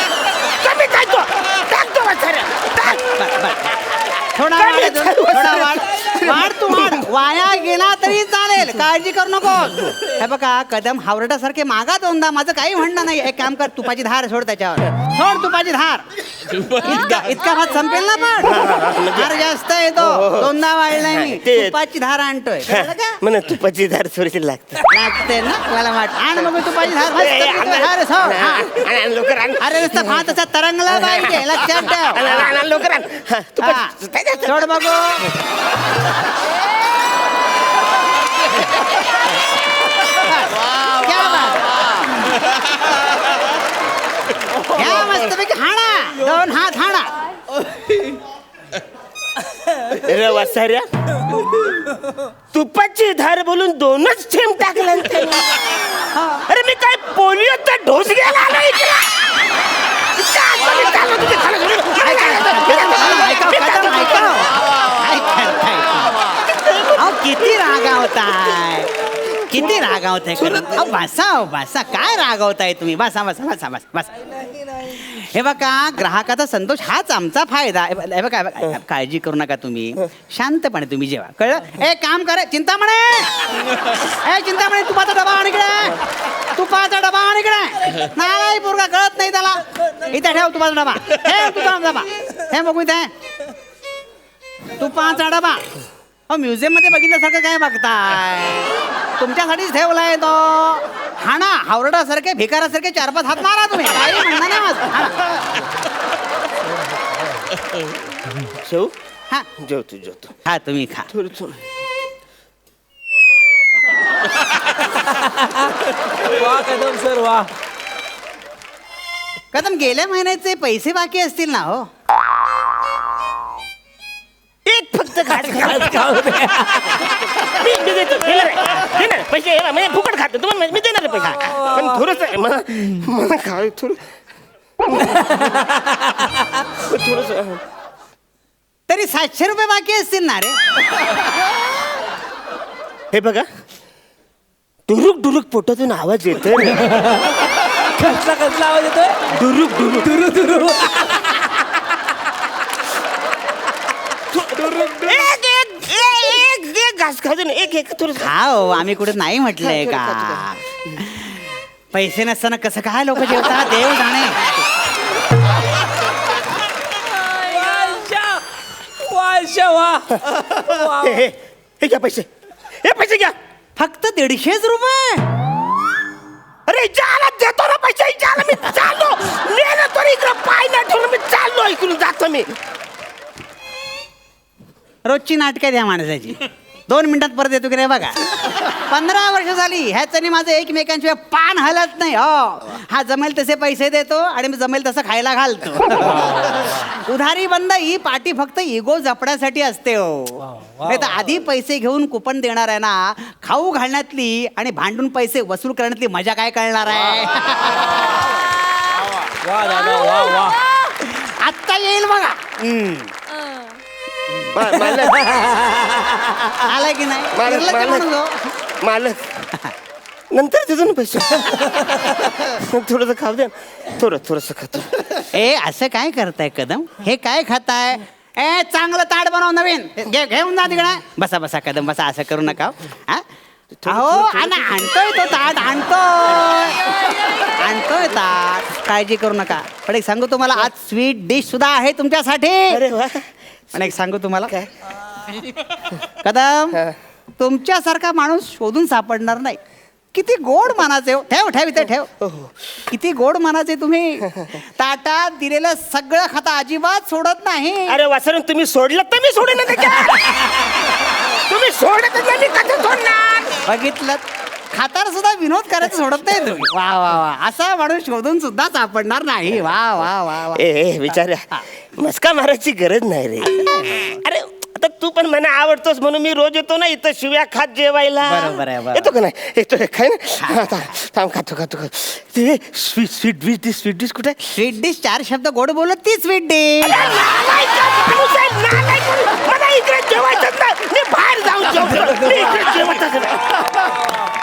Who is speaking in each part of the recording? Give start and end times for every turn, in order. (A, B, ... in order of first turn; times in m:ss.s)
0:00.3-0:03.0 A
0:02.8-0:18.6 B
0:04.5-0:07.0 A
0:18.4-0:21.8 A
0:19.1-0:23.2 B
0:22.6-0:24.8 A
0:24.9-0:28.7 B
0:27.0-0:30.3 A
0:29.6-0:32.5 B
0:30.9-0:34.8 A
0:33.6-0:35.3 B
0:40.0-0:42.1 B
0:44.7-0:47.1 B
0:49.8-0:50.9 A
0:52.5-0:55.8 A
0:56.1-0:56.4 B
0:56.5-1:04.5 A
1:01.9-1:06.3 B
1:06.6-1:07.0 A
1:06.9-1:14.1 B
1:14.7-1:33.1 B
1:34.8-1:35.6 B
1:36.3-1:45.4 B
1:48.5-1:48.9 A
1:49.6-1:50.4 A
1:50.4-1:51.1 B
1:51.1-1:51.6 A
1:55.3-1:57.5 C
1:59.5-2:01.9 B
2:04.6-2:06.2 A
2:05.5-2:07.1 C
2:07.4-2:14.0 A
2:11.6-2:11.8 C
2:14.8-2:15.2 A
2:15.2-2:16.3 C
2:16.8-2:17.6 A
2:18.9-2:20.6 B
2:23.1-2:23.4 A
2:24.9-2:26.9 A
2:26.8-2:29.3 C
2:29.3-2:30.5 A
2:30.1-2:31.5 C
2:34.3-2:38.3 A
2:38.1-2:44.5 B
2:39.6-2:40.5 A
2:47.2-2:48.4 C
2:49.0-2:51.1 C
2:50.8-2:52.3 A
2:52.8-2:53.3 A
2:53.8-2:55.2 B
2:56.7-3:02.5 A
3:05.0-3:28.1 B
3:16.2-3:16.5 C
3:20.6-3:21.0 C
3:29.3-3:30.6 C
3:29.7-3:33.2 B
3:34.5-3:35.3 A
3:36.2-3:38.5 B
3:37.3-3:38.1 A
3:38.8-3:39.4 A
3:40.3-3:45.0 A
3:45.2-3:53.2 B
3:53.8-3:54.8 A
3:53.8-4:02.8 B
4:02.7-4:03.3 A
4:03.7-4:04.5 B
4:06.2-4:09.6 B
4:10.1-4:12.1 B
4:12.2-4:12.5 A
4:12.9-4:18.0 B
4:17.9-4:20.7 A
4:21.2-4:23.6 A
4:23.6-4:30.6 B
4:30.5-4:44.5 A
4:33.4-4:34.2 B
4:38.2-4:39.1 B
4:40.4-4:40.9 B
4:44.5-4:47.0 B
4:46.8-4:53.7 A